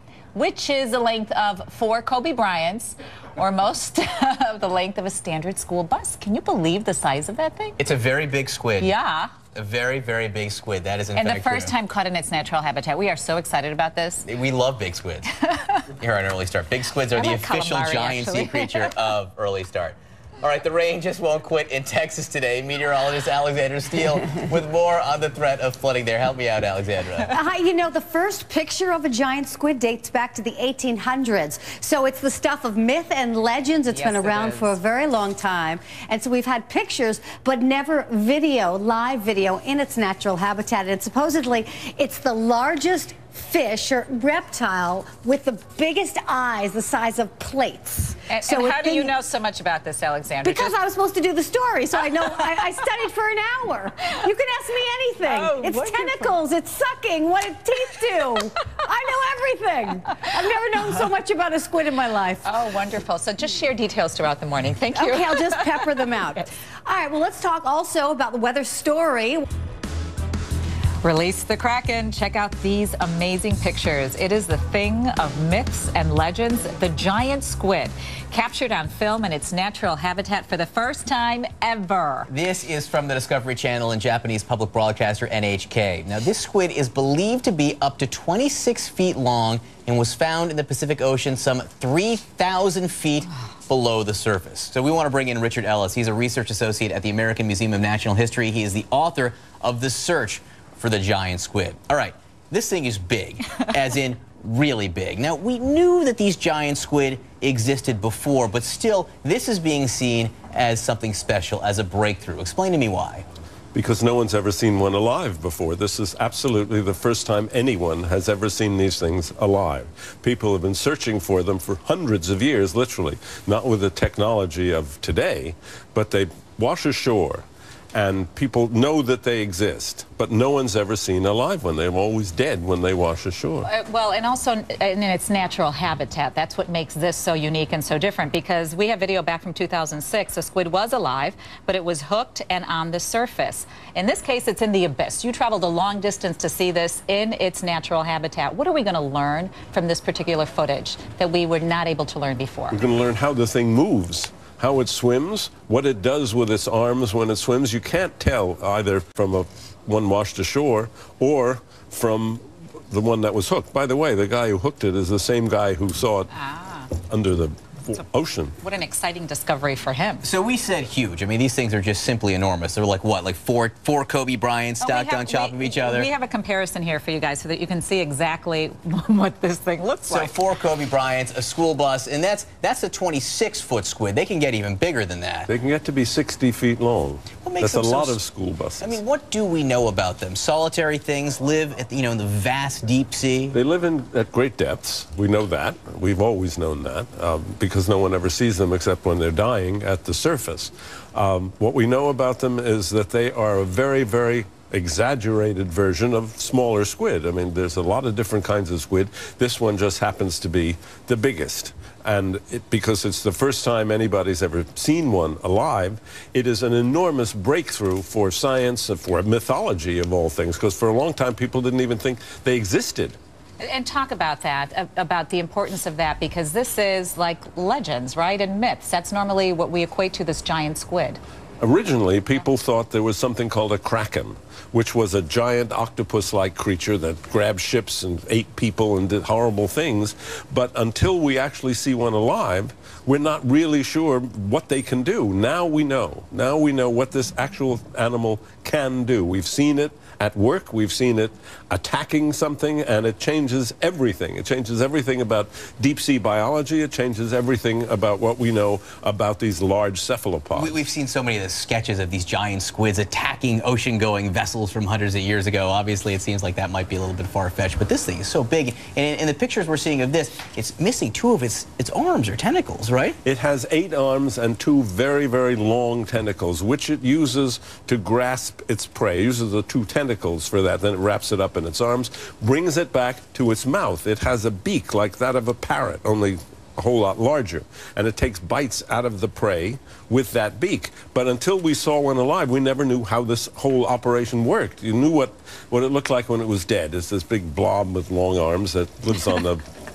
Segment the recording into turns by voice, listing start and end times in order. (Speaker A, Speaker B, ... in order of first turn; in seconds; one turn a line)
Speaker A: 0.3-7.8
Speaker B: 7.8-8.9
Speaker A: 8.8-9.3
Speaker B: 9.5-11.7
Speaker A: 11.1-14.3
Speaker B: 14.3-15.3
Speaker B: 15.9-27.4
Speaker A: 17.1-18.9
Speaker C: 27.3-49.1
Speaker A: 33.9-34.8
Speaker A: 48.3-50.7
Speaker C: 50.4-62.6
Speaker A: 55.3-56.3
Speaker A: 62.4-65.8
Speaker C: 65.0-69.5
Speaker A: 71.0-82.3
Speaker B: 82.3-113.3
Speaker D: 113.7-133.7
Speaker A: 133.7-152.8
Speaker D: 152.7-166.3
Speaker A: 166.3-166.9
Speaker D: 167.1-168.6
Speaker A: 168.6-170.3
Speaker B: 170.2-176.1
Speaker A: 174.8-180.4
Speaker B: 180.1-185.5
Speaker D: 185.5-189.0
Speaker B: 187.4-188.2
Speaker B: 188.8-193.6
Speaker D: 193.5-223.2
Speaker A: 223.6-231.2
Speaker D: 231.6-260.8
Speaker B: 260.5-273.2
Speaker D: 273.2-299.6